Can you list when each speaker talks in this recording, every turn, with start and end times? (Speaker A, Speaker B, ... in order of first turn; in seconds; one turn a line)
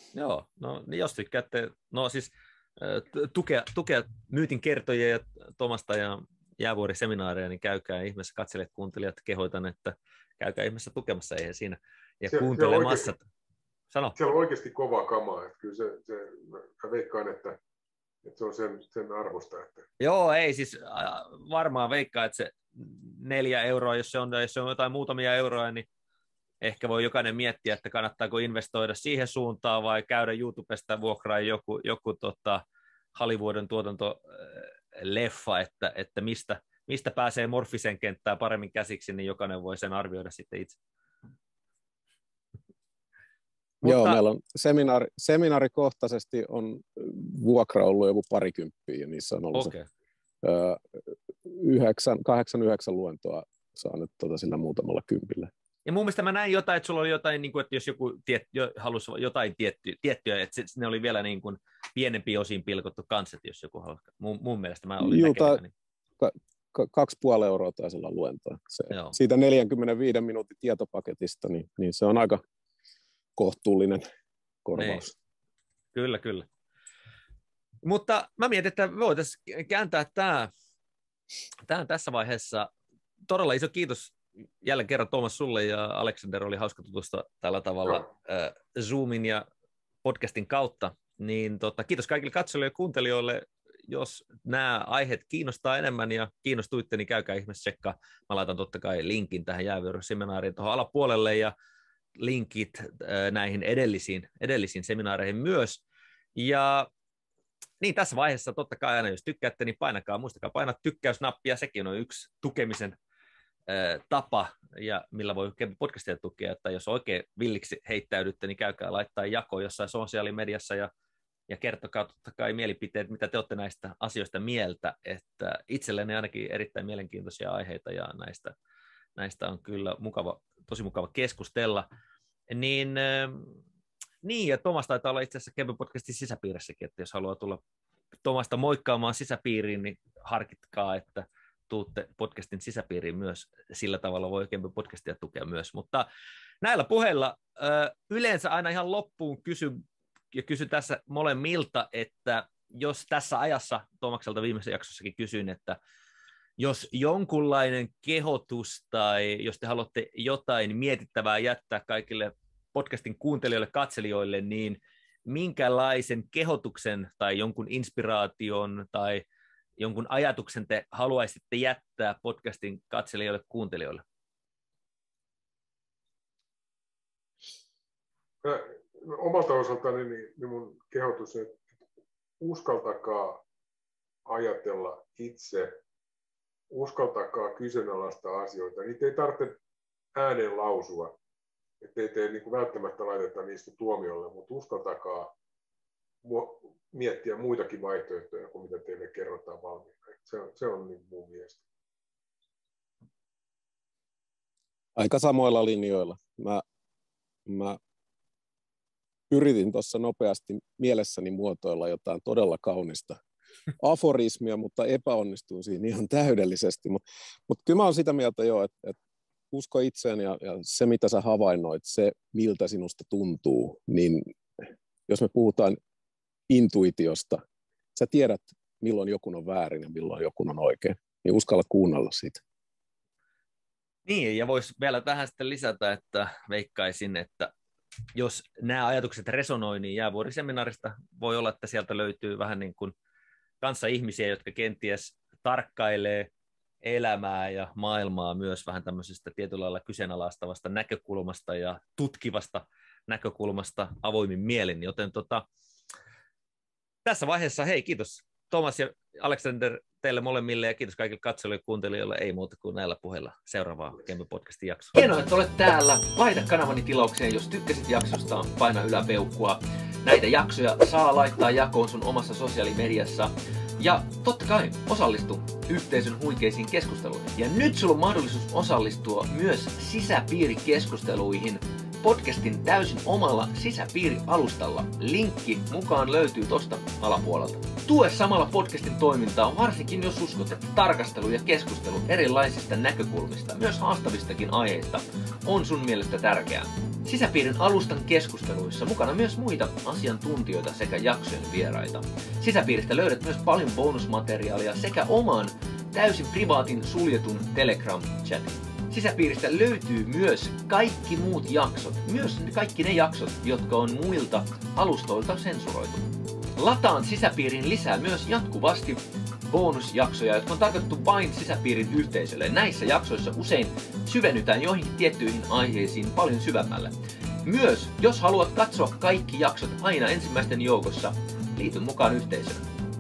Speaker A: 0.1-13.2
Speaker B: 12.3-13.1
Speaker B: 14.2-17.6
Speaker B: 18.2-19.9
Speaker A: 20.0-25.9
Speaker A: 26.6-32.6
Speaker A: 33.1-40.8
Speaker A: 43.8-44.2
Speaker C: 43.8-49.7
Speaker A: 49.5-49.9
Speaker C: 50.4-55.5
Speaker A: 55.9-65.7
Speaker C: 65.0-65.6
Speaker C: 66.2-72.4
Speaker A: 68.9-69.2
Speaker C: 73.4-74.0
Speaker C: 74.7-75.1
Speaker A: 74.8-75.1
Speaker A: 75.9-76.5
Speaker A: 77.8-80.5
Speaker A: 81.7-82.7
Speaker A: 83.3-89.4
Speaker A: 90.0-101.5
Speaker A: 102.2-105.8
Speaker A: 106.3-106.9
Speaker A: 107.8-113.0
Speaker A: 113.7-120.9
Speaker A: 121.5-128.6
Speaker A: 129.2-131.9
Speaker A: 132.5-133.6
Speaker A: 134.2-137.6
Speaker A: 138.2-146.1
Speaker A: 146.6-155.8
Speaker A: 156.6-169.2
Speaker A: 169.8-174.0
Speaker B: 178.4-181.7
Speaker B: 182.4-183.4
Speaker B: 184.3-185.8
Speaker B: 186.7-189.6
Speaker B: 190.2-191.2
Speaker B: 191.8-195.3
Speaker B: 196.2-201.6
Speaker C: 205.0-206.6
Speaker C: 207.5-207.8
Speaker C: 209.3-213.2
Speaker C: 213.8-219.0
Speaker C: 219.5-224.3
Speaker C: 225.1-225.8
Speaker C: 226.5-227.4
Speaker C: 227.9-232.4
Speaker A: 234.1-237.5
Speaker A: 238.1-242.9
Speaker A: 243.6-246.3
Speaker A: 246.8-255.4
Speaker A: 257.1-316.0
Speaker A: 316.6-326.9
Speaker A: 327.4-332.6